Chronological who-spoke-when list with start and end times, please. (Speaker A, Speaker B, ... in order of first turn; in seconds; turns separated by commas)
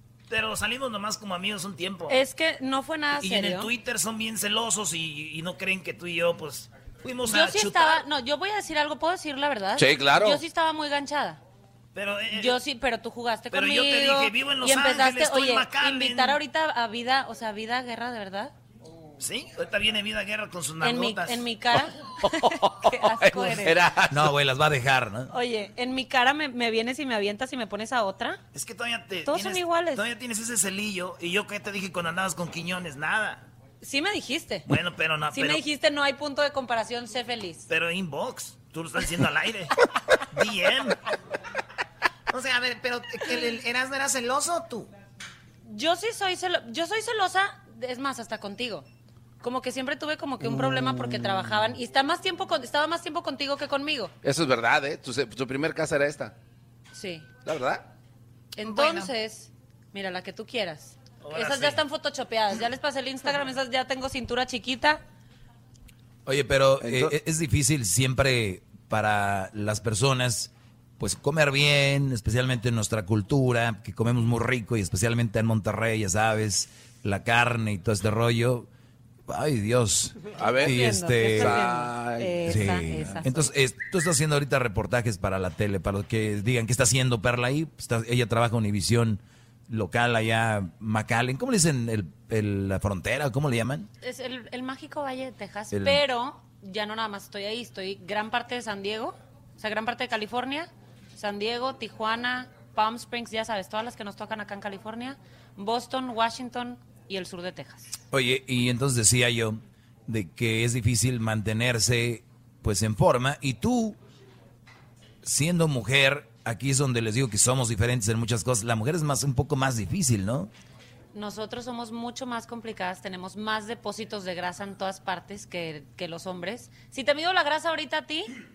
Speaker A: 0.3-2.2, Speaker B: 2.1-3.7, Speaker A: 3.2-8.0, Speaker B: 7.3-11.4, Speaker C: 9.8-10.4, Speaker A: 11.9-12.6, Speaker B: 12.3-18.5, Speaker A: 13.5-16.4, Speaker A: 19.2-21.4, Speaker B: 20.8-23.8, Speaker C: 22.2-24.3, Speaker D: 24.1-25.3, Speaker B: 25.3-28.4, Speaker A: 28.5-33.5, Speaker B: 29.3-30.1, Speaker B: 33.8-34.7, Speaker A: 34.7-35.6, Speaker B: 35.3-37.7, Speaker A: 37.7-39.7, Speaker A: 40.3-41.0, Speaker E: 42.3-44.9, Speaker B: 45.7-48.9, Speaker B: 49.4-54.1, Speaker C: 50.4-51.7, Speaker C: 54.2-56.3, Speaker B: 56.9-57.3, Speaker C: 57.5-57.8, Speaker B: 58.6-65.0, Speaker E: 58.6-59.1, Speaker A: 61.2-61.8, Speaker D: 66.3-78.7, Speaker C: 66.8-67.1, Speaker D: 79.3-81.7, Speaker C: 80.3-83.3, Speaker B: 80.7-83.5, Speaker D: 82.5-93.9, Speaker B: 94.0-107.9, Speaker D: 95.7-96.0, Speaker D: 108.1-114.0, Speaker D: 115.2-120.5, Speaker B: 121.1-128.3